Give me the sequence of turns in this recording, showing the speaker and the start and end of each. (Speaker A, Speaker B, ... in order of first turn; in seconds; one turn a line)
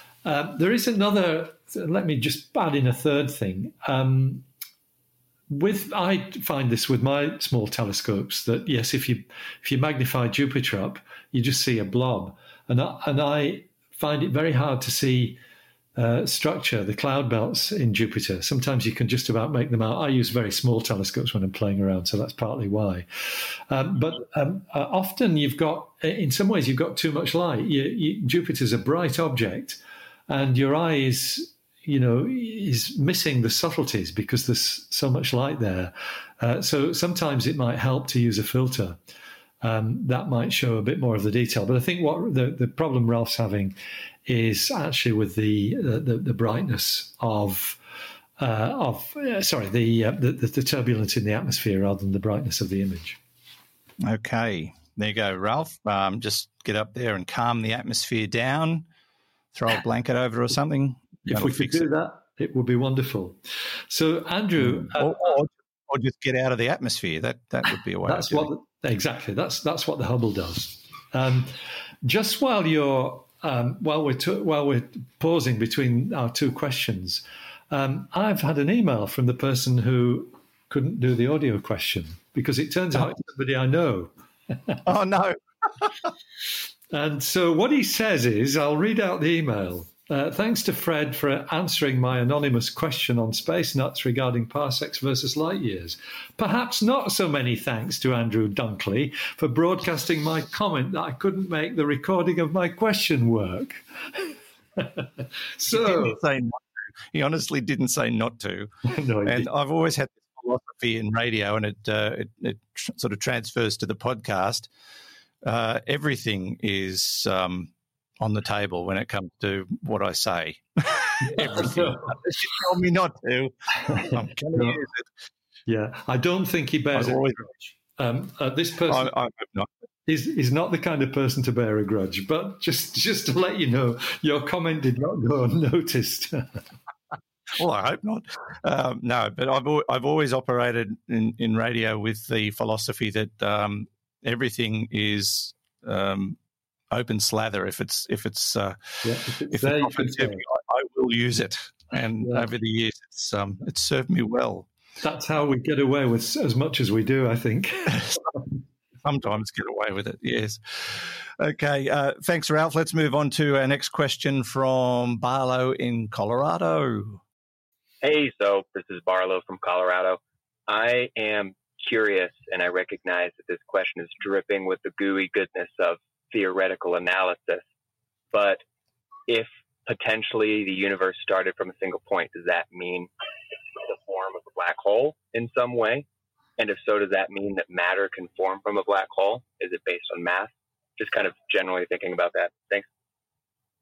Speaker A: 0.2-4.5
Speaker A: 5.5-15.4
Speaker A: 16.0-39.0
Speaker A: 39.6-43.8
Speaker A: 44.3-47.8
Speaker A: 48.4-53.2
Speaker B: 54.0-58.9
Speaker B: 59.5-61.9
Speaker A: 61.3-63.4
Speaker A: 63.9-65.4
Speaker B: 64.6-68.5
Speaker A: 68.1-84.8
Speaker B: 84.9-86.1
Speaker A: 86.9-105.0
Speaker A: 105.6-106.2
Speaker B: 105.7-108.7
Speaker A: 108.9-109.5
Speaker B: 109.3-114.7
Speaker B: 115.4-125.1
Speaker A: 121.2-122.2
Speaker A: 123.9-124.8
Speaker A: 125.7-129.1
Speaker B: 127.0-127.4
Speaker B: 128.9-129.7
Speaker A: 130.1-136.6
Speaker B: 137.5-146.4
Speaker B: 146.9-154.7
Speaker A: 149.0-150.4
Speaker A: 152.2-152.5
Speaker A: 155.0-158.3
Speaker B: 159.0-167.2
Speaker C: 168.0-177.6
Speaker C: 178.3-178.6
Speaker C: 179.3-183.1
Speaker C: 183.8-186.1
Speaker C: 186.6-192.9